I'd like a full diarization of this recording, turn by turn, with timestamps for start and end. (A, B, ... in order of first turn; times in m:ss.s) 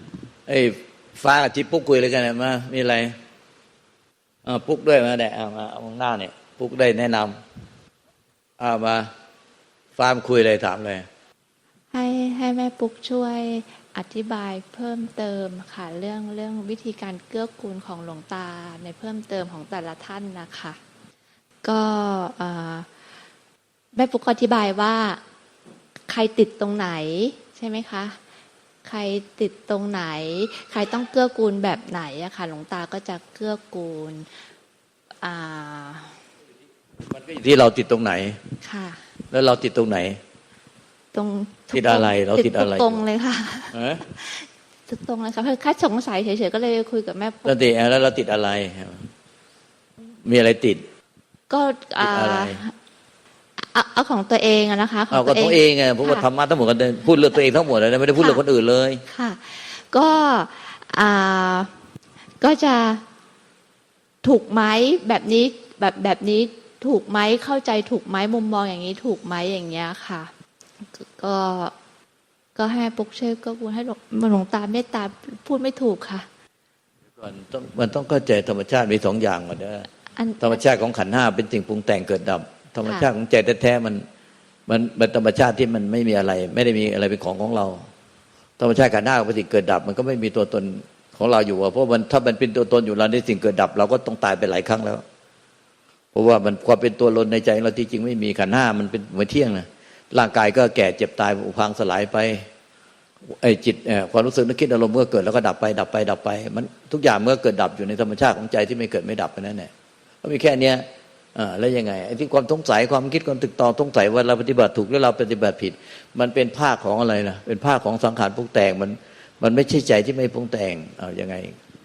0:00.5-0:03.1 A
0:04.4-0:07.4 A
0:08.6-0:09.1 A
0:10.0-0:11.0 A
0:11.9-0:20.8 B
0:21.6-0:22.9 B
0:23.9-0:25.2 B
0:26.1-0:28.2 B
0:28.8-0:34.3 B
0:35.2-0:36.2 B
0:37.1-0:38.4 A
0:38.6-0:39.0 B
0:39.3-0:40.2 A
0:41.1-0:47.5 B
0:41.7-0:43.0 A
0:43.7-0:44.0 A
0:47.4-0:49.1 A
0:50.2-0:50.8 A
0:51.5-0:52.7 B
0:52.0-0:52.6 A
0:53.6-0:56.2 B
0:55.1-0:59.0 A
0:59.1-1:01.7 B
1:02.4-1:03.0 B
1:04.2-1:10.3 B
1:10.9-1:11.7 B
1:12.6-1:16.3 B
1:17.2-1:19.9 A
1:20.2-1:20.6 B
1:20.4-1:24.0 A
1:24.7-1:27.8 A
1:28.6-1:35.0 A
1:36.1-1:42.4 A
1:43.4-1:49.7 A
1:50.2-2:01.5 A